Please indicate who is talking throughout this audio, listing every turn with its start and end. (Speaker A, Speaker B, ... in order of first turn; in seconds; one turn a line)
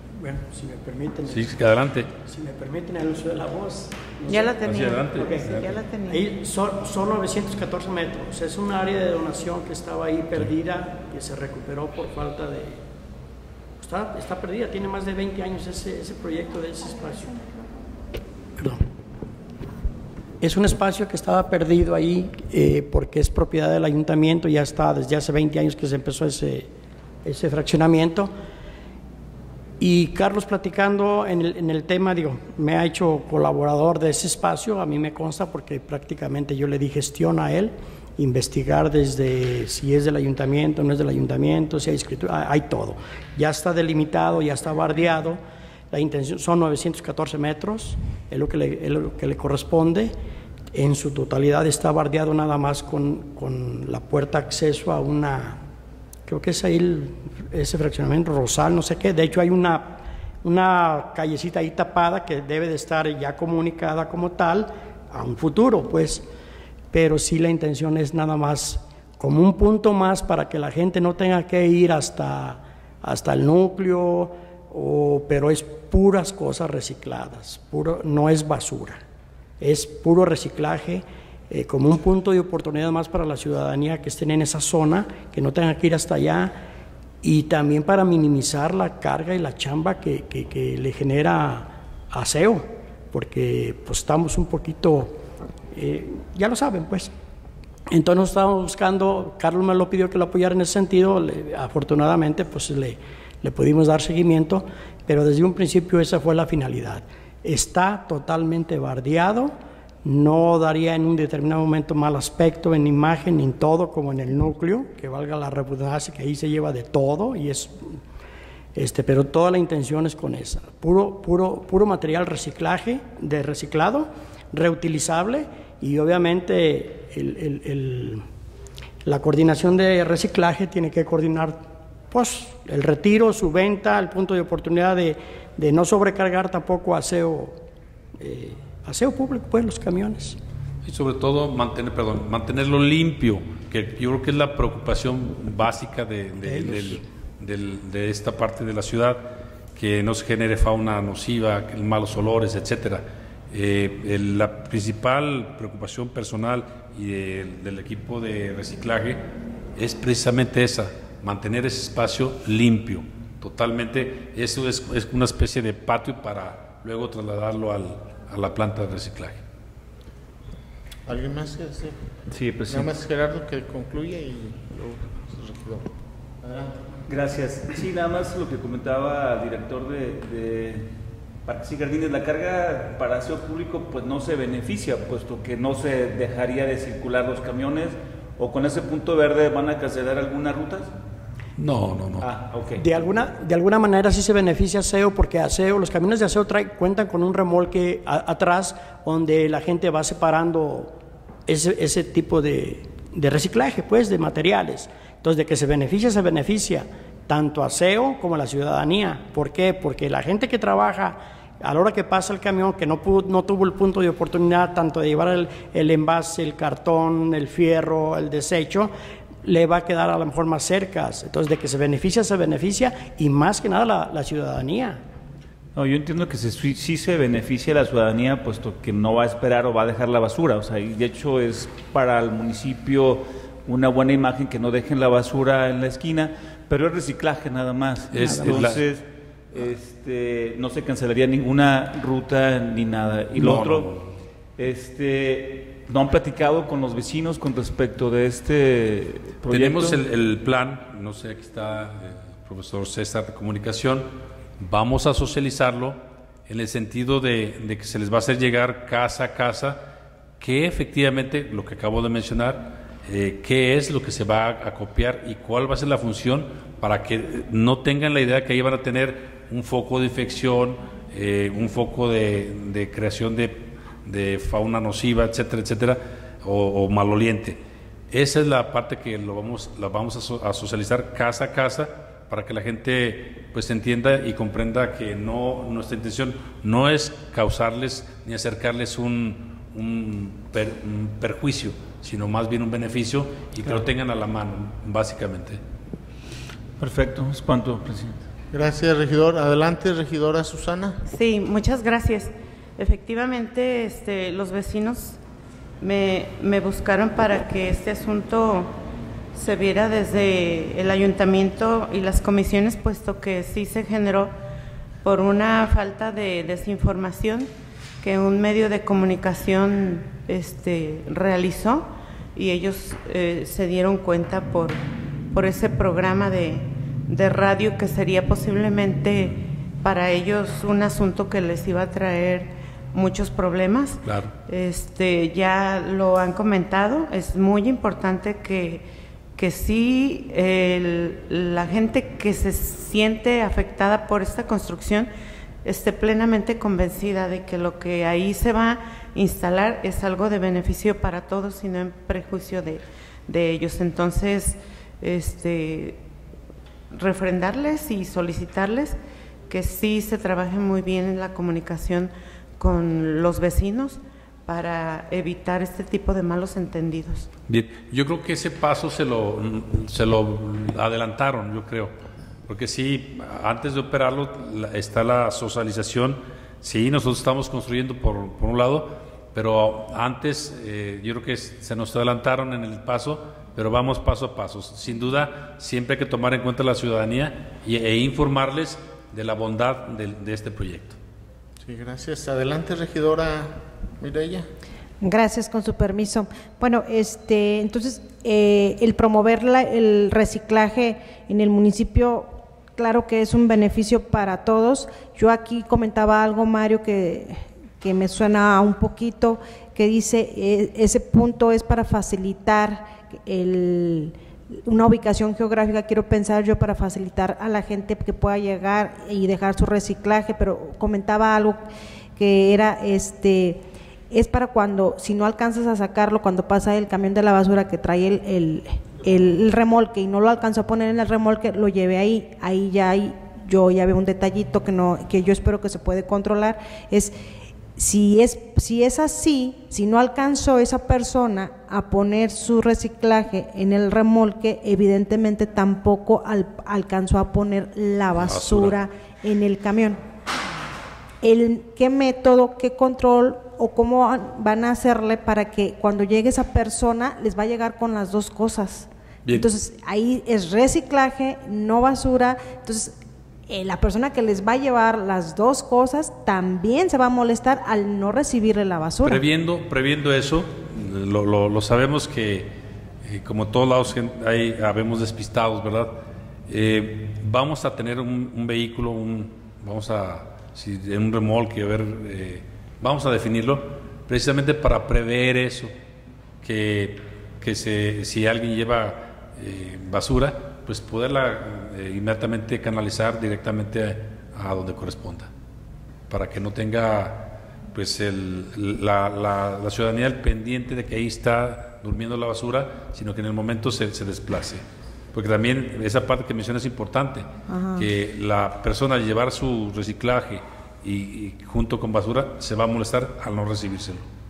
Speaker A: 0.1-1.6
Speaker B: 1.3-2.1
Speaker A: 2.2-12.8
Speaker C: 4.3-6.2
Speaker B: 4.7-5.7
Speaker A: 13.8-17.5
Speaker A: 18.6-18.8
Speaker A: 20.4-26.7
Speaker A: 27.2-28.3
Speaker A: 29.8-50.1
Speaker A: 50.7-55.6
Speaker A: 56.3-66.2
Speaker A: 66.9-79.0
Speaker A: 79.6-86.6
Speaker A: 87.2-95.2
Speaker A: 95.7-97.1
Speaker A: 97.9-118.0
Speaker A: 118.8-128.2
Speaker A: 129.0-137.6
Speaker A: 138.2-140.4
Speaker B: 140.8-159.2
Speaker A: 146.5-147.0
Speaker B: 159.8-169.4
Speaker D: 171.1-172.0
Speaker E: 172.3-172.9
Speaker D: 172.7-175.9
Speaker D: 176.4-176.8
Speaker E: 177.1-180.9
Speaker E: 181.5-190.9
Speaker B: 191.6-192.3
Speaker E: 192.2-192.8
Speaker A: 192.8-200.9
Speaker A: 201.5-218.9
Speaker A: 219.4-225.0
Speaker E: 225.8-243.9
Speaker B: 238.1-238.8
Speaker A: 238.2-238.5
Speaker B: 243.4-244.1
Speaker E: 244.6-250.0
Speaker B: 249.5-259.9
Speaker B: 260.4-295.6
Speaker E: 296.8-298.2
Speaker D: 298.5-301.0
Speaker C: 301.1-305.2
Speaker C: 305.8-308.7
Speaker C: 309.4-314.3
Speaker C: 315.0-317.5
Speaker C: 318.0-345.1
Speaker B: 334.1-334.3
Speaker C: 345.6-356.0
Speaker C: 356.9-367.3
Speaker B: 367.5-371.9
Speaker B: 372.5-391.0
Speaker D: 391.6-394.5
Speaker F: 395.0-414.1
Speaker F: 414.7-421.6
Speaker F: 422.2-437.1
Speaker F: 437.8-450.0
Speaker B: 448.1-448.8
Speaker F: 451.2-463.0
Speaker F: 463.5-469.2
Speaker B: 469.0-472.5
Speaker B: 473.0-485.7
Speaker B: 486.4-495.3
Speaker B: 496.1-514.1
Speaker F: 507.5-507.9